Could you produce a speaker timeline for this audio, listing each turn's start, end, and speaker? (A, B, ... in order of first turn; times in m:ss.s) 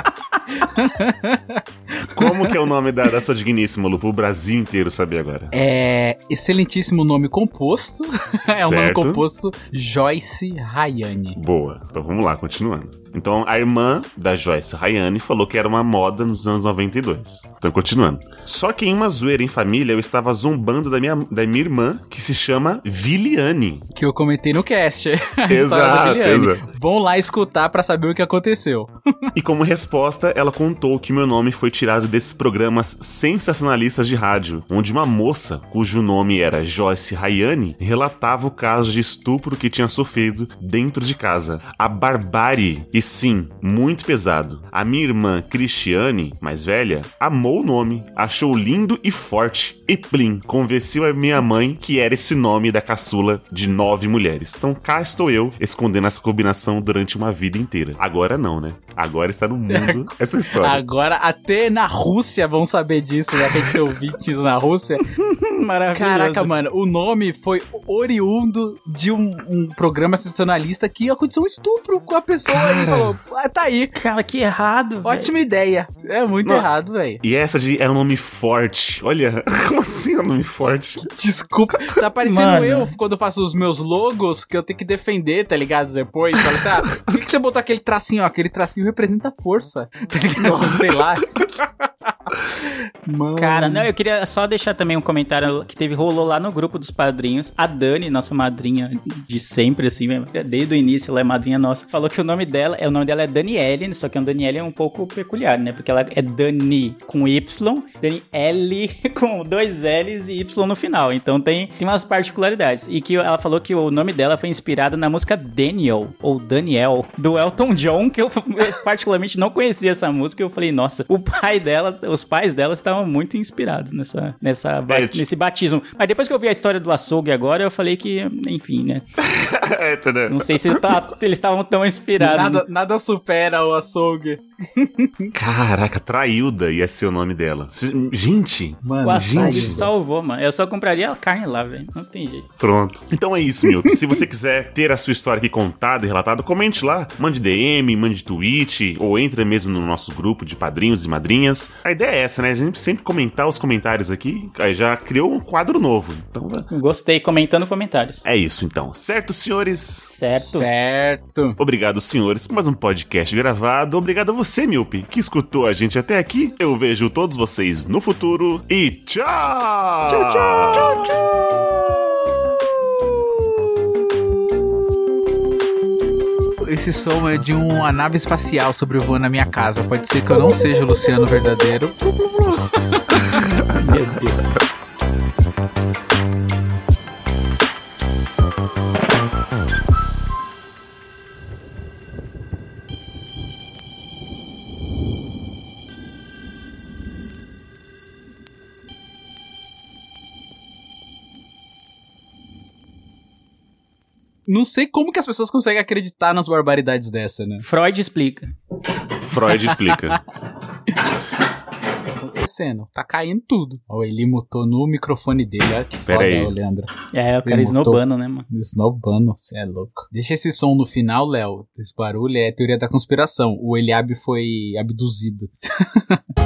0:00.6-0:02.4 A
0:02.1-0:05.5 B
0:05.5-0:11.4 A
0:08.6-0:09.3 B
0:11.4-0:23.8 B
0:24.0-0:28.9 A
0:25.5-0:26.7 B
0:29.4-1:00.8 B
0:59.7-1:05.0 A
1:05.0-1:06.5 C
1:05.9-1:14.0 A
1:12.5-1:13.1 B
1:14.0-1:15.3 C
1:15.0-1:17.2 A
1:16.4-1:16.7 B
1:17.2-1:21.1 B
1:21.2-1:31.7 A
1:22.2-1:23.0 C
1:30.5-1:30.8 B
1:32.3-1:33.9 A
1:33.4-2:09.0 C
2:04.9-2:05.2 B
2:09.2-2:11.0 B
2:10.3-2:12.6 C
2:12.2-2:15.3 A
2:15.3-2:19.9 B
2:18.8-2:19.9 A
2:19.0-2:22.5 C
2:22.6-2:36.7 B
2:36.7-2:38.2 C
2:38.2-2:40.1 B
2:40.0-2:40.7 C
2:40.3-2:41.6 A
2:41.6-2:51.1 B
2:50.1-2:51.0 C
2:51.0-2:51.3 A
2:56.6-3:03.3 A
3:03.8-3:04.4 C
3:24.5-3:27.6 A
3:27.6-3:28.5 C
3:29.2-3:30.2 B
3:32.2-3:36.9 A
3:36.1-3:36.5 B
3:37.1-3:38.4 C
3:37.4-3:46.2 A